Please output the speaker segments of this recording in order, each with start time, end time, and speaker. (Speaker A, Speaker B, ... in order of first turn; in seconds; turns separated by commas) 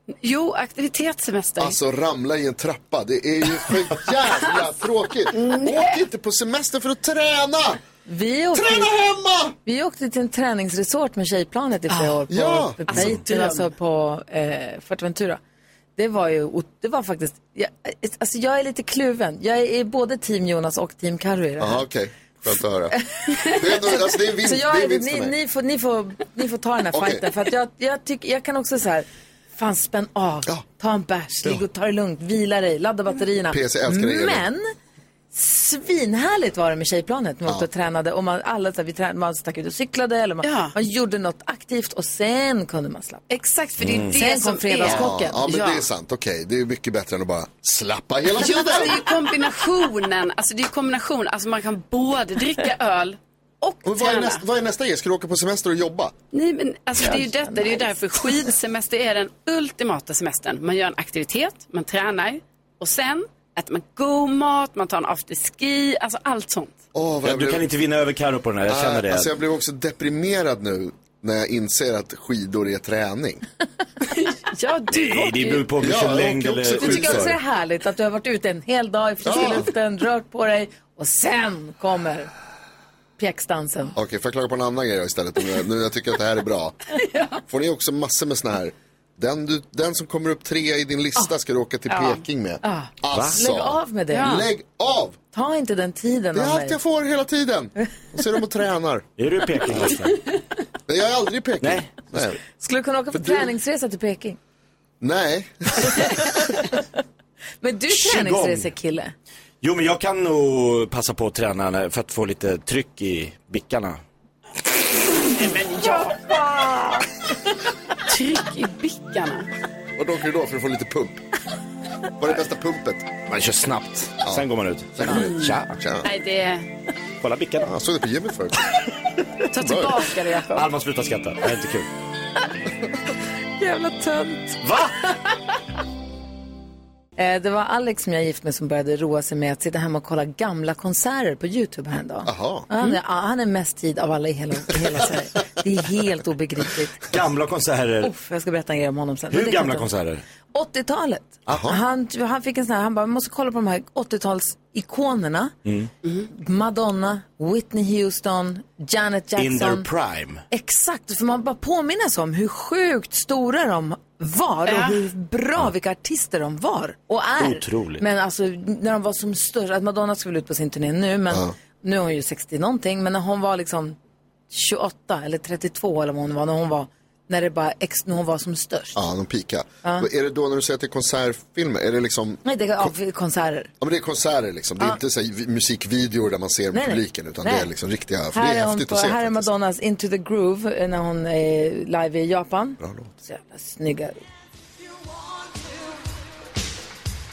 Speaker A: 0.2-1.8, Speaker B: 1.6-7.8, Speaker A: 5.4-5.8, Speaker C: 8.1-8.9, Speaker B: 8.5-9.6, Speaker C: 9.7-15.4, Speaker A: 11.9-12.2, Speaker B: 12.3-13.0, Speaker A: 12.9-13.7, Speaker C: 16.0-21.9, Speaker B: 21.6-25.4, Speaker C: 23.0-34.6, Speaker B: 26.9-27.3, Speaker B: 33.5-34.5, Speaker C: 35.3-43.2, Speaker A: 40.4-40.7, Speaker A: 43.3-45.9, Speaker D: 43.8-44.2, Speaker C: 44.1-45.4, Speaker B: 44.8-49.1, Speaker A: 48.4-54.4, Speaker B: 53.8-56.1, Speaker A: 56.3-66.8, Speaker C: 57.1-57.8, Speaker B: 66.9-67.7, Speaker D: 67.2-69.3, Speaker B: 68.7-73.4, Speaker A: 74.1-75.7, Speaker D: 74.9-77.4, Speaker B: 75.8-77.3, Speaker C: 76.7-82.3, Speaker B: 79.2-79.7, Speaker C: 83.2-84.0, Speaker B: 84.0-86.8, Speaker B: 87.5-95.2, Speaker A: 91.9-92.2, Speaker C: 92.6-94.4, Speaker D: 93.1-93.4, Speaker A: 94.1-94.5, Speaker C: 95.3-96.8, Speaker B: 96.3-99.1, Speaker D: 99.2-100.2, Speaker B: 100.9-102.4, Speaker D: 101.6-102.3, Speaker C: 102.6-104.4, Speaker B: 103.1-103.5, Speaker B: 105.0-106.2, Speaker C: 105.9-106.8, Speaker C: 107.6-109.1, Speaker D: 107.9-108.7, Speaker D: 109.6-114.0, Speaker A: 115.3-116.4, Speaker A: 118.1-119.5, Speaker B: 120.0-121.2, Speaker B: 122.2-123.2, Speaker D: 123.3-125.7, Speaker B: 124.2-126.1, Speaker A: 126.0-126.7, Speaker D: 127.2-127.7, Speaker B: 127.6-128.6, Speaker A: 129.5-130.7, Speaker B: 129.6-130.0, Speaker D: 130.5-131.9, Speaker C: 133.6-134.6, Speaker D: 134.6-134.9, Speaker C: 137.2-147.0, Speaker B: 142.2-142.7, Speaker D: 147.1-148.1, Speaker C: 148.0-149.9, Speaker D: 149.3-150.2, Speaker C: 150.5-155.5, Speaker B: 151.5-151.8, Speaker D: 155.7-155.9, Speaker C: 156.3-159.9, Speaker D: 159.4-160.4, Speaker C: 160.5-174.0, Speaker A: 164.7-165.0, Speaker D: 167.4-168.0, Speaker B: 171.3-171.6, Speaker C: 174.5-179.0, Speaker B: 179.0-182.9, Speaker C: 182.4-183.7, Speaker B: 183.8-189.5, Speaker C: 186.7-187.7, Speaker C: 188.3-194.2, Speaker B: 192.8-193.1